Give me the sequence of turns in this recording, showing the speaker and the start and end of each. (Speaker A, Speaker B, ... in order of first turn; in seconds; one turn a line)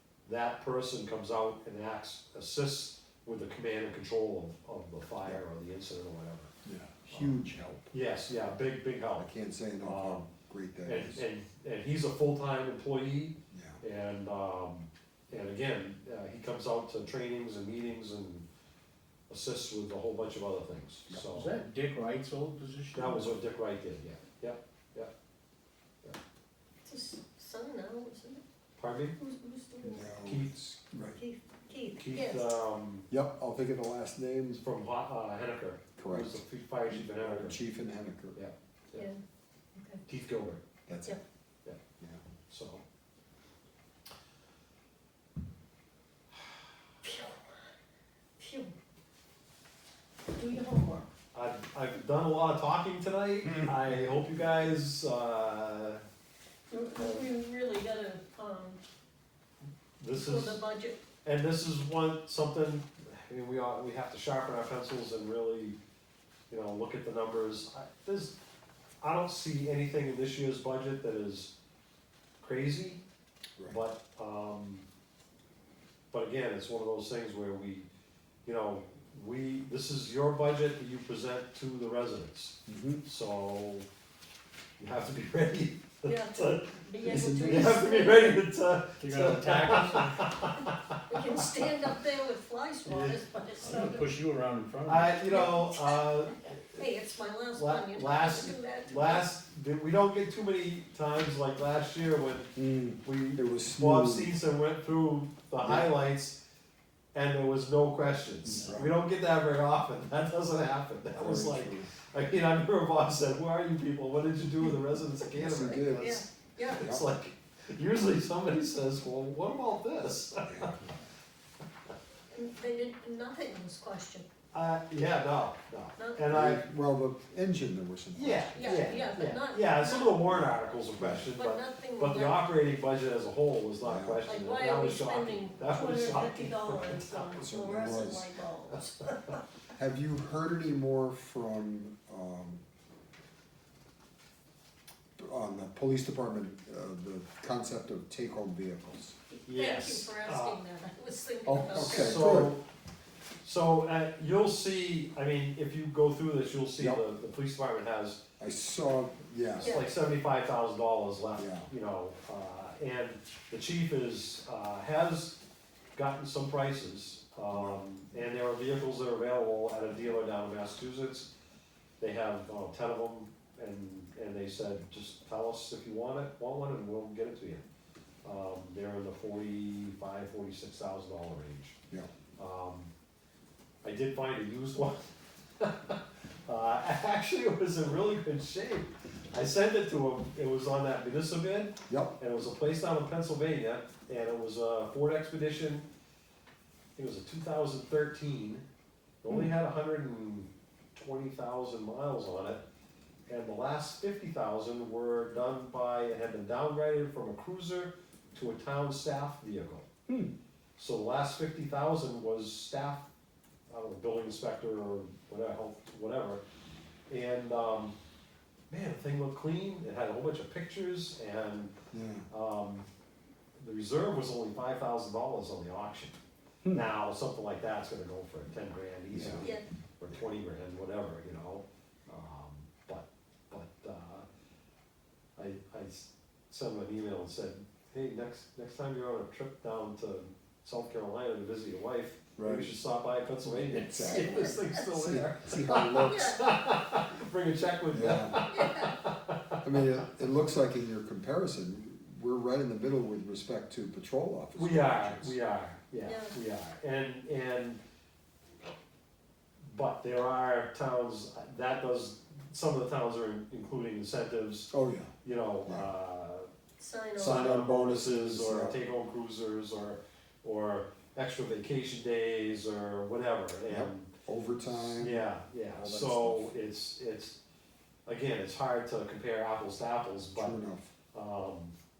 Speaker A: 0.2-6.5
Speaker B: 6.6-7.9
Speaker A: 7.9-9.3
Speaker B: 9.2-11.2
Speaker A: 9.8-10.2
Speaker A: 10.8-18.4
Speaker B: 13.5-13.8
Speaker A: 19.3-21.6
Speaker C: 21.3-23.3
Speaker A: 22.9-25.1
Speaker D: 26.8-28.4
Speaker A: 28.8-29.1
Speaker D: 29.2-30.1
Speaker B: 29.8-31.2
Speaker A: 30.2-30.5
Speaker D: 31.1-32.5
Speaker A: 31.9-33.1
Speaker B: 33.1-34.6
Speaker A: 34.5-37.6
Speaker B: 36.0-38.4
Speaker A: 38.4-39.1
Speaker D: 38.9-39.2
Speaker D: 39.7-40.0
Speaker A: 40.0-40.6
Speaker B: 40.9-41.2
Speaker A: 42.5-42.8
Speaker D: 47.0-47.7
Speaker D: 48.4-48.7
Speaker D: 50.3-51.1
Speaker A: 51.3-56.0
Speaker B: 53.5-53.7
Speaker D: 56.7-58.8
Speaker A: 56.9-57.3
Speaker A: 60.0-60.6
Speaker D: 60.1-61.0
Speaker A: 61.2-65.8
Speaker A: 66.5-68.3
Speaker A: 69.0-71.5
Speaker A: 72.4-73.0
Speaker A: 73.7-74.8
Speaker A: 76.1-77.9
Speaker A: 78.4-83.8
Speaker B: 82.7-83.0
Speaker A: 84.8-86.8
Speaker D: 86.0-88.4
Speaker B: 87.0-87.9
Speaker A: 87.3-91.5
Speaker C: 89.0-90.2
Speaker D: 89.8-94.1
Speaker A: 92.8-93.2
Speaker C: 93.6-95.2
Speaker A: 94.8-96.8
Speaker D: 95.3-99.2
Speaker A: 97.5-106.4
Speaker B: 102.5-104.3
Speaker B: 105.6-105.9
Speaker A: 107.1-120.7
Speaker B: 108.4-108.9
Speaker B: 111.1-111.9
Speaker B: 115.3-117.1
Speaker D: 115.8-116.8
Speaker B: 120.5-120.9
Speaker D: 122.3-124.3
Speaker A: 124.5-126.6
Speaker D: 126.0-126.2
Speaker B: 126.3-129.0
Speaker A: 128.1-137.3
Speaker D: 128.5-130.3
Speaker B: 130.3-131.3
Speaker D: 131.3-132.4
Speaker B: 133.8-134.6
Speaker D: 134.2-139.4
Speaker B: 137.3-138.3
Speaker B: 139.8-142.6
Speaker B: 145.2-149.1
Speaker D: 149.4-152.2
Speaker A: 149.4-150.6
Speaker B: 151.4-152.6
Speaker A: 151.7-152.6
Speaker A: 153.4-158.2
Speaker B: 156.8-157.0
Speaker B: 158.4-159.8
Speaker A: 159.6-165.4
Speaker D: 159.6-159.9
Speaker B: 161.3-161.7
Speaker A: 165.9-171.3
Speaker B: 167.5-167.8
Speaker A: 172.0-177.7
Speaker A: 178.2-181.8
Speaker A: 182.4-182.9
Speaker A: 183.8-195.8
Speaker B: 191.9-192.1
Speaker A: 196.9-198.6
Speaker A: 199.2-202.6
Speaker A: 203.3-209.9
Speaker B: 210.1-210.3
Speaker A: 210.8-213.1
Speaker A: 213.7-216.4
Speaker A: 217.1-217.9
Speaker A: 218.7-221.7
Speaker B: 221.9-222.3
Speaker A: 222.3-222.8
Speaker A: 223.6-226.2
Speaker A: 226.7-234.2
Speaker B: 229.1-229.5
Speaker D: 229.4-229.6
Speaker A: 235.4-249.6
Speaker B: 242.4-242.7
Speaker B: 243.4-246.3
Speaker D: 244.0-244.7
Speaker D: 245.7-246.4
Speaker B: 247.9-248.4
Speaker D: 248.4-249.0
Speaker B: 249.6-255.3
Speaker A: 254.5-257.8
Speaker D: 256.0-256.3
Speaker A: 259.7-264.7
Speaker B: 264.7-265.1
Speaker A: 265.2-266.5
Speaker D: 266.8-267.5
Speaker B: 267.2-268.8
Speaker A: 267.2-274.1
Speaker B: 273.7-276.5
Speaker A: 274.7-277.4
Speaker A: 278.1-280.6
Speaker B: 280.4-280.9
Speaker A: 281.1-281.7